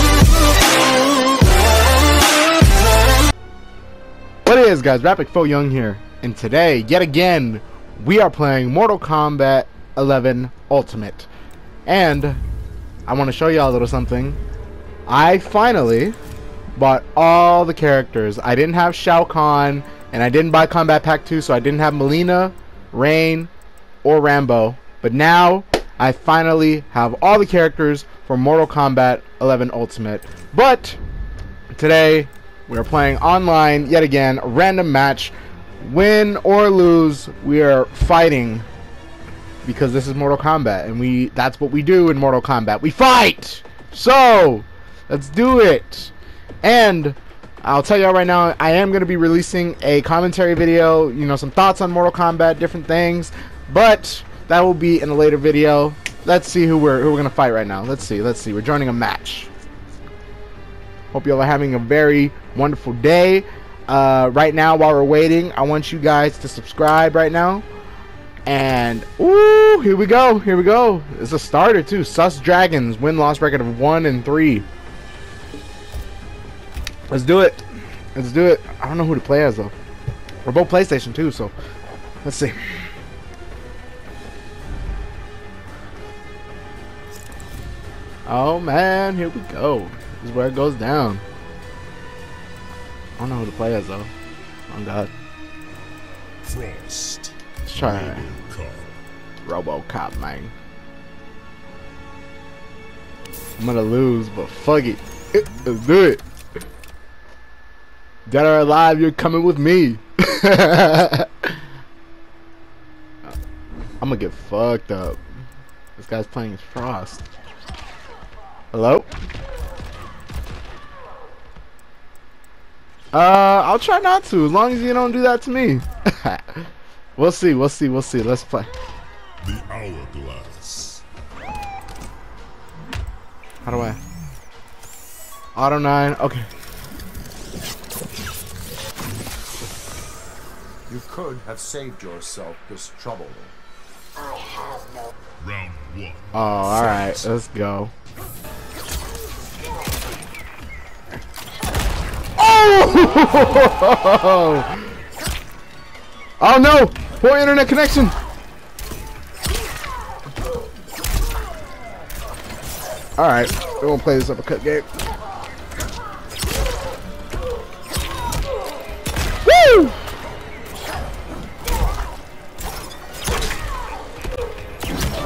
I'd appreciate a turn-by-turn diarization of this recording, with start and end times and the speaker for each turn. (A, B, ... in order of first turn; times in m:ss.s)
0:04.4-0:11.3 A
0:11.8-0:12.4 A
0:13.0-0:14.4 A
0:15.1-0:16.2 A
0:16.8-0:23.5 A
0:24.0-0:31.0 A
0:31.7-0:38.6 A
0:39.6-0:59.5 A
1:01.1-1:07.6 A
1:08.4-1:14.6 A
1:17.1-1:17.6 A
1:18.1-1:19.7 A
1:20.4-1:21.5 A
1:22.2-1:22.6 A
1:28.2-1:31.2 A
1:33.2-1:34.1 A
1:34.7-1:35.1 A
1:36.4-1:39.0 B
1:37.6-1:38.3 A
1:39.4-1:40.5 A
1:43.6-1:46.2 A
1:48.3-1:51.5 A
1:54.0-1:55.2 A
1:56.0-1:57.2 A
1:58.7-1:59.1 A
2:03.1-2:06.6 A
2:07.2-2:08.7 A
2:09.4-2:11.0 B
2:13.6-2:14.0 A
2:15.5-2:16.5 A
2:20.9-2:23.5 C
2:25.4-2:27.2 B
2:26.3-2:27.9 A
2:32.4-2:34.9 A
2:36.4-2:38.1 A
2:43.2-2:44.9 A
2:49.4-2:49.9 A